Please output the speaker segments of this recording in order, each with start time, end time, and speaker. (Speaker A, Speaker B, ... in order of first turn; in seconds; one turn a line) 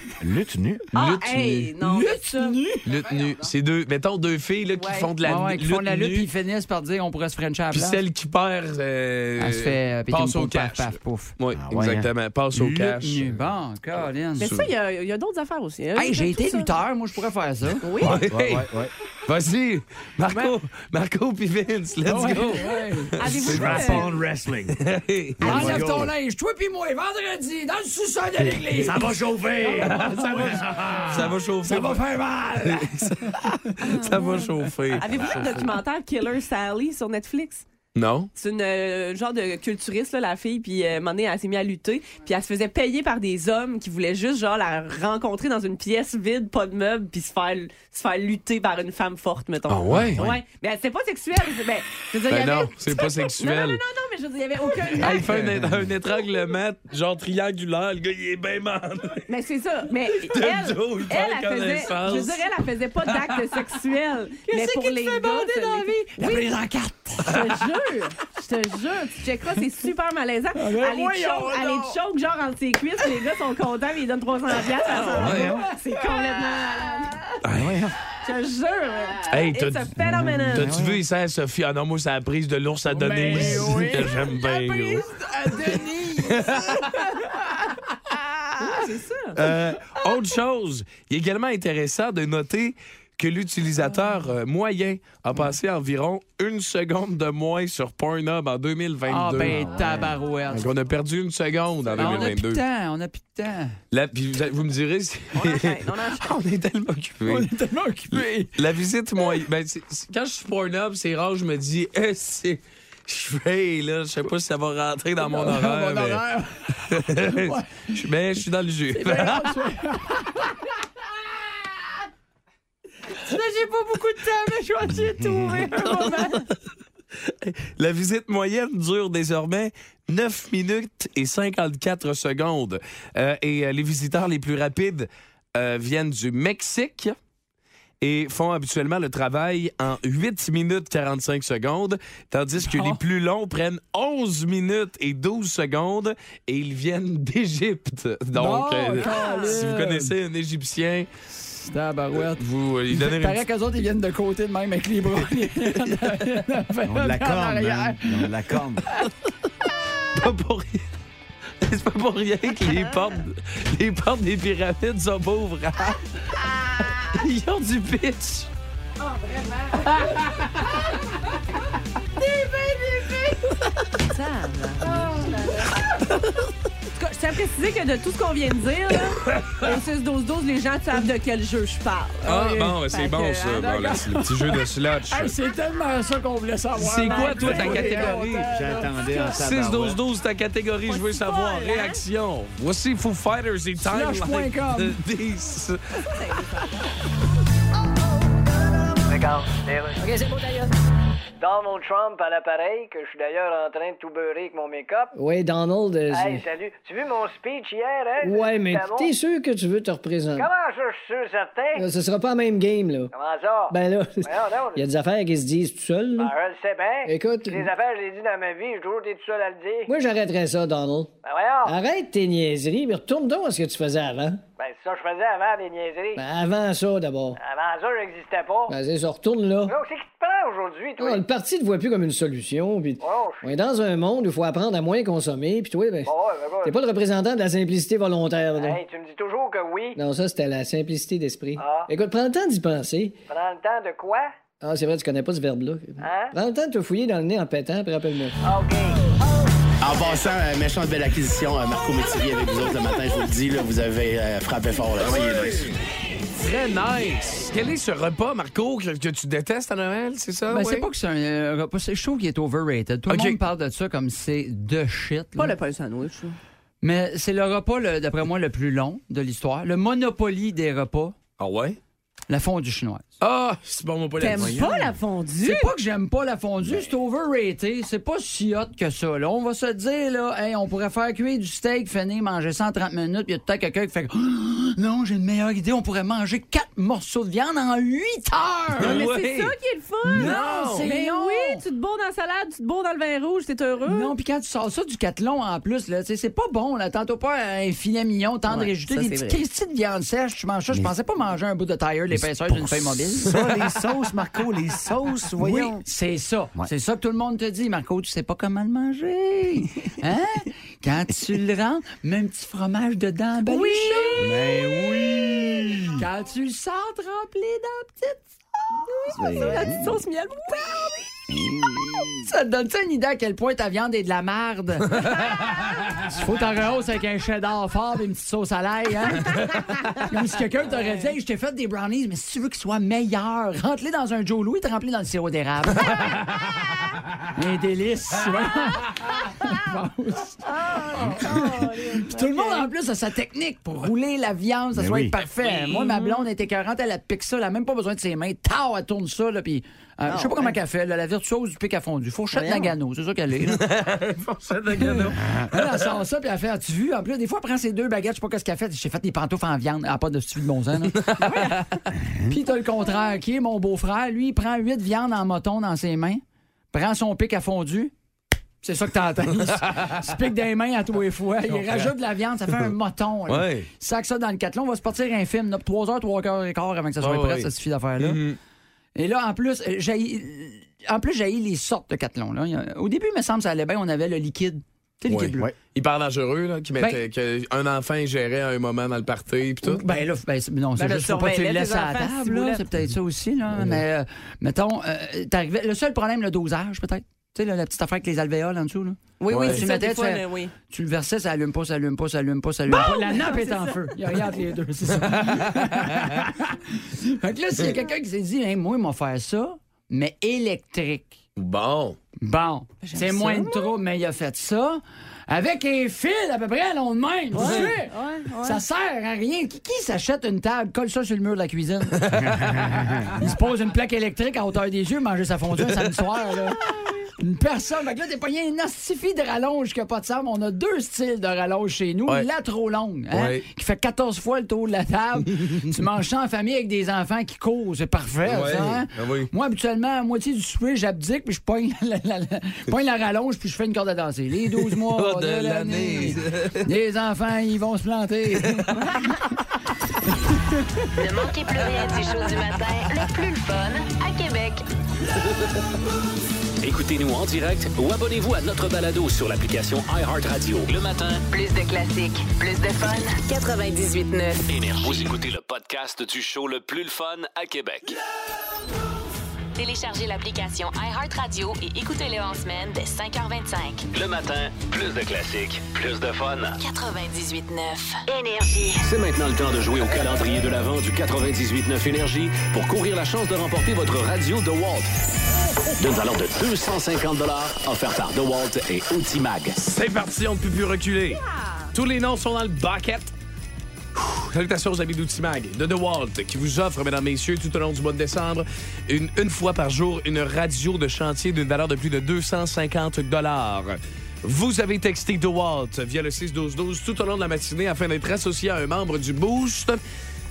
Speaker A: 0.2-0.8
Speaker B: 0.9-1.7
Speaker C: 0.9-2.6
Speaker D: 1.8-2.9
Speaker B: 2.8-6.3
Speaker C: 4.7-5.1
Speaker D: 5.2-8.0
Speaker B: 7.7-13.3
Speaker D: 9.4-11.3
Speaker A: 11.5-12.1
Speaker D: 12.5-14.5
Speaker C: 14.4-16.7
Speaker B: 14.4-14.7
Speaker D: 15.9-17.8
Speaker C: 17.8-18.2
Speaker B: 18.0-18.7
Speaker A: 18.0-18.9
Speaker B: 19.2-24.1
Speaker D: 22.0-23.2
Speaker C: 23.2-24.1
Speaker A: 23.3-24.8
Speaker B: 24.7-25.8
Speaker A: 25.4-26.1
Speaker D: 25.4-34.5
Speaker A: 28.4-31.3
Speaker B: 29.8-32.0
Speaker B: 32.6-35.7
Speaker C: 33.9-37.6
Speaker B: 37.9-38.3
Speaker C: 38.3-55.3
Speaker B: 49.7-50.2
Speaker A: 50.1-50.4
Speaker B: 52.3-53.8
Speaker B: 55.0-59.3
Speaker C: 59.3-66.5
Speaker B: 60.0-62.5
Speaker D: 64.5-67.5
Speaker C: 67.2-77.2
Speaker D: 70.5-72.0
Speaker D: 74.8-76.6
Speaker A: 75.2-75.7
Speaker B: 75.2-75.6
Speaker B: 77.4-77.8
Speaker A: 77.5-78.0
Speaker C: 78.2-80.7
Speaker B: 79.3-80.0
Speaker B: 80.5-85.0
Speaker A: 80.5-81.0
Speaker D: 82.9-87.0
Speaker B: 86.2-87.0
Speaker C: 88.6-89.4
Speaker B: 89.4-99.8
Speaker A: 89.4-89.8
Speaker D: 99.0-100.7
Speaker B: 100.5-102.6
Speaker D: 102.0-103.8
Speaker B: 103.9-107.5
Speaker C: 105.3-106.4
Speaker D: 107.2-108.5
Speaker B: 108.1-116.2
Speaker D: 115.2-118.0
Speaker B: 116.8-119.7
Speaker D: 118.9-121.9
Speaker D: 123.1-126.4
Speaker B: 125.8-126.5
Speaker B: 127.2-137.2
Speaker B: 138.0-151.1
Speaker D: 142.6-143.0
Speaker D: 148.3-150.1
Speaker C: 149.0-149.6
Speaker D: 151.3-158.3
Speaker B: 152.2-153.4
Speaker A: 156.8-158.8
Speaker B: 160.1-160.9
Speaker B: 161.6-166.0
Speaker B: 166.9-168.5
Speaker D: 172.2-173.0
Speaker C: 173.9-175.2
Speaker D: 175.0-175.7
Speaker C: 176.9-184.2
Speaker B: 179.2-179.7
Speaker B: 182.2-185.3
Speaker D: 185.1-189.3
Speaker B: 186.8-188.5
Speaker C: 187.0-187.7
Speaker A: 187.4-190.0
Speaker B: 189.3-196.1
Speaker C: 190.9-192.0
Speaker D: 193.8-195.0
Speaker C: 196.1-196.8
Speaker E: 199.1-200.7
Speaker E: 201.4-205.1
Speaker F: 205.1-206.4
Speaker E: 206.1-209.1
Speaker F: 208.2-210.5
Speaker E: 210.3-211.8
Speaker F: 211.8-213.1
Speaker E: 213.1-214.8
Speaker F: 213.7-216.3
Speaker E: 216.2-219.9
Speaker F: 217.1-217.7
Speaker F: 219.9-224.4
Speaker E: 221.2-221.7
Speaker E: 224.6-226.2
Speaker F: 226.2-227.4
Speaker E: 227.4-228.7
Speaker F: 228.7-229.7
Speaker E: 229.7-231.2
Speaker F: 231.0-236.1
Speaker E: 233.0-233.5
Speaker E: 236.1-236.8
Speaker F: 236.6-238.8
Speaker E: 238.5-240.0
Speaker F: 240.0-243.2
Speaker E: 241.6-241.9
Speaker E: 243.3-244.3
Speaker F: 244.6-248.3
Speaker E: 246.0-246.3
Speaker E: 248.4-249.0
Speaker G: 249.8-255.7
Speaker B: 255.0-255.7
Speaker B: 256.4-260.9
Speaker D: 260.5-265.5
Speaker B: 263.1-263.4
Speaker C: 265.4-266.4
Speaker D: 266.8-271.2
Speaker B: 271.4-271.8
Speaker D: 272.3-273.1
Speaker B: 273.2-274.7
Speaker C: 274.2-275.7
Speaker A: 274.3-274.9
Speaker D: 275.4-289.1
Speaker B: 288.8-289.5
Speaker C: 288.8-294.1
Speaker D: 290.0-291.6
Speaker B: 290.1-290.9
Speaker D: 293.8-303.4
Speaker C: 298.5-299.4
Speaker A: 302.1-305.8
Speaker D: 305.4-315.4
Speaker C: 313.4-314.5
Speaker A: 314.2-316.0
Speaker D: 315.9-319.4
Speaker A: 319.1-320.0
Speaker C: 319.3-321.0
Speaker A: 321.3-322.3
Speaker D: 322.2-325.2
Speaker D: 326.0-336.6
Speaker D: 337.3-353.7
Speaker C: 340.4-342.7
Speaker A: 344.7-345.2
Speaker C: 345.6-346.2
Speaker C: 350.1-350.5
Speaker C: 352.3-352.7
Speaker B: 353.5-355.7
Speaker D: 354.8-361.6
Speaker C: 361.2-361.7
Speaker D: 362.2-367.9
Speaker D: 368.6-378.2
Speaker B: 369.6-370.0
Speaker B: 371.5-371.9
Speaker B: 373.3-373.7
Speaker B: 377.0-378.4
Speaker D: 378.9-385.5
Speaker B: 385.1-389.9
Speaker D: 386.8-387.0
Speaker D: 389.6-411.2
Speaker C: 390.8-392.6
Speaker C: 399.2-400.5
Speaker B: 399.3-399.6
Speaker C: 402.7-403.9
Speaker B: 405.1-406.1
Speaker B: 411.4-412.0
Speaker D: 412.2-448.9
Speaker C: 412.8-413.7
Speaker C: 417.3-418.6
Speaker B: 422.0-422.4
Speaker A: 422.4-423.1
Speaker B: 433.1-433.4
Speaker B: 438.3-439.3
Speaker B: 444.7-446.7
Speaker H: 450.9-454.6
Speaker I: 456.6-461.2
Speaker H: 461.3-465.1
Speaker I: 464.5-468.0
Speaker H: 469.6-473.9
Speaker I: 473.9-476.6
Speaker H: 476.6-478.8
Speaker I: 478.8-484.9
Speaker I: 485.8-489.6
Speaker B: 489.6-491.2
Speaker C: 491.1-491.7
Speaker B: 491.7-493.1
Speaker B: 493.9-509.8